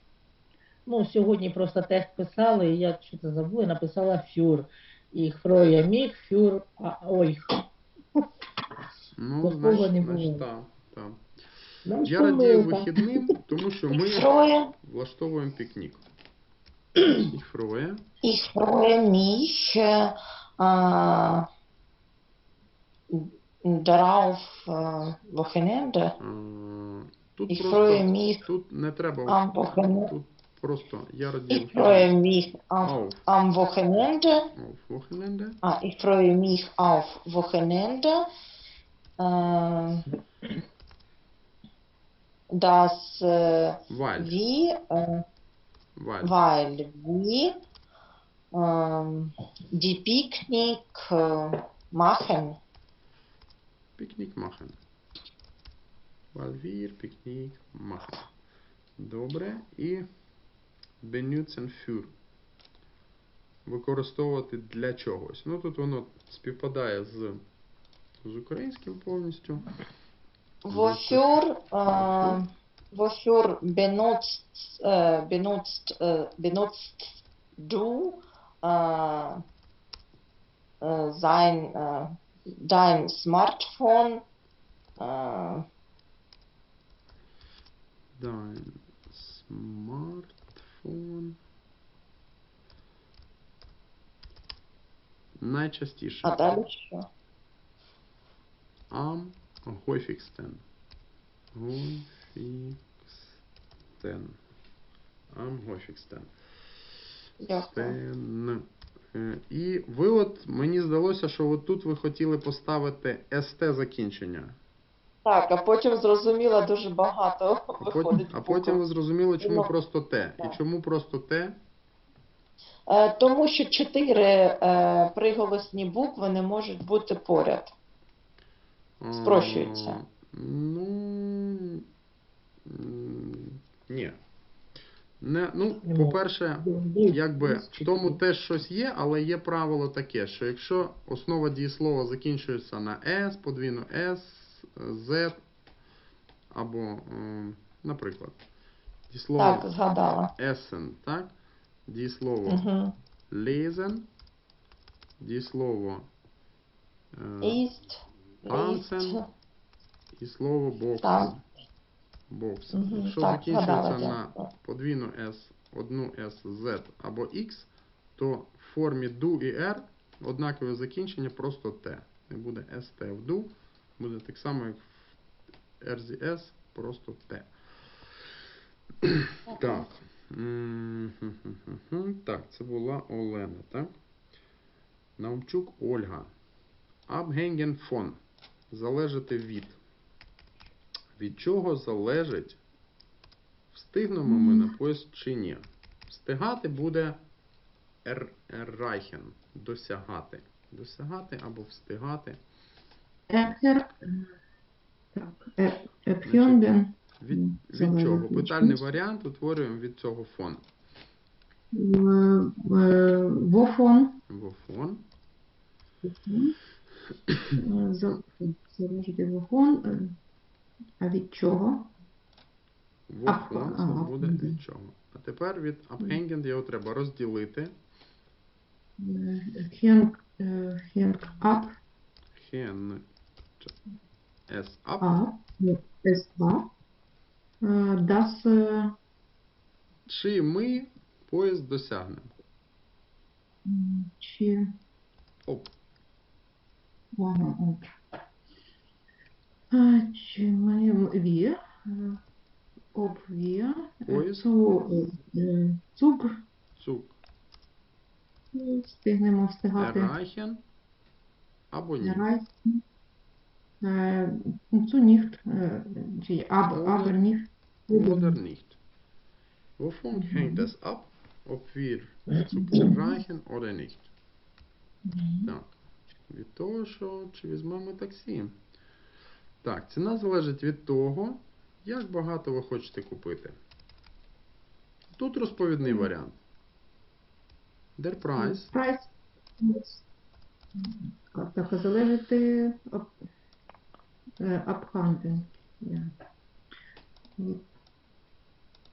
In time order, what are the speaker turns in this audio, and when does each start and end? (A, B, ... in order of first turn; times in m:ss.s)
0:00.8-0:07.5 A
0:09.2-0:11.2 B
0:09.4-0:10.4 A
0:11.8-0:13.3 A
0:12.0-0:16.0 B
0:13.9-0:14.7 C
0:17.2-0:18.0 B
0:18.2-0:21.4 C
0:23.1-0:26.1 C
0:26.2-0:32.1 B
0:27.5-0:28.4 C
0:29.3-0:30.1 C
0:31.5-0:34.5 C
0:32.8-0:33.2 B
0:34.5-0:35.6 B
0:35.6-0:38.2 C
0:39.2-0:40.0 C
0:42.5-0:45.2 C
0:43.9-0:44.4 B
0:46.0-0:46.4 B
0:46.2-0:47.5 C
0:48.5-0:52.6 C
0:54.0-0:54.8 B
0:56.3-0:58.3 B
0:59.0-1:00.0 B
1:01.0-1:02.1 B
1:03.6-1:07.4 B
1:08.2-1:09.6 B
1:10.7-1:19.4 C
1:10.7-1:12.4 B
1:20.8-1:24.2 C
1:25.0-1:25.6 C
1:28.2-1:31.4 B
1:35.4-1:36.6 B
1:36.2-1:37.1 C
1:38.9-1:40.6 B
1:41.5-1:43.4 B
1:44.0-1:44.4 B
1:45.3-1:46.3 B
1:47.4-1:48.0 C
1:47.7-1:54.6 B
1:55.2-1:58.8 C
1:57.8-2:01.6 B
1:59.4-1:59.7 C
2:02.9-2:07.7 C
2:09.0-2:11.8 B
2:09.2-2:10.0 C
2:12.6-2:14.2 B
2:15.2-2:25.4 B
2:15.8-2:18.2 A
2:26.5-2:28.4 B
2:29.1-2:29.7 B
2:29.4-2:30.3 C
2:30.4-2:31.3 B
2:31.9-2:32.7 B
2:32.4-2:32.9 C
2:33.3-2:34.1 B
2:35.2-2:36.1 B
2:37.1-2:37.6 B
2:37.4-2:39.2 C
2:38.5-2:39.2 B
2:40.1-2:41.4 B
2:41.0-2:41.3 C
2:42.3-2:55.1 B
2:42.7-2:44.4 C
2:55.8-2:57.5 B
2:59.0-3:03.9 B
2:59.5-2:59.9 C
3:05.2-3:06.3 B
3:07.1-3:08.2 B
3:08.7-3:09.8 B
3:11.2-3:12.6 B
3:13.7-3:17.2 B
3:14.3-3:14.7 D
3:18.0-3:22.4 B
3:23.3-3:23.9 D
3:25.2-3:28.9 D
3:26.2-3:30.6 B
3:31.7-3:34.2 D
3:34.3-3:35.0 B
3:36.1-3:36.5 D
3:37.6-3:40.2 D
3:41.0-3:41.9 D
3:43.1-3:47.7 B
3:43.2-3:44.6 D
3:49.0-3:51.7 D
3:52.3-3:53.0 B
3:54.5-3:55.2 B
3:55.0-3:56.7 D
3:57.6-3:58.9 D
4:00.1-4:02.3 B
4:03.6-4:04.7 D
4:05.4-4:05.7 B
4:07.2-4:07.8 D
4:09.7-4:12.2 D
4:12.9-4:16.3 D
4:14.1-4:14.4 B
4:16.8-4:17.2 B
4:18.5-4:20.1 D
4:19.8-4:20.6 B
4:21.7-4:22.2 B
4:22.0-4:22.8 D
4:23.8-4:28.4 D
4:26.7-4:27.2 B
4:27.9-4:28.8 B
4:29.8-4:34.1 B
4:30.2-4:30.6 D
4:32.6-4:32.9 D
4:35.0-4:35.5 D
4:35.4-4:35.7 B
4:36.3-4:38.6 B
4:39.6-4:43.6 B
4:45.1-4:46.4 B
4:45.8-4:46.1 D
4:48.0-4:48.7 B
4:48.4-4:50.0 D
4:50.7-4:53.1 D
4:54.4-4:56.1 D
4:57.4-4:57.6 D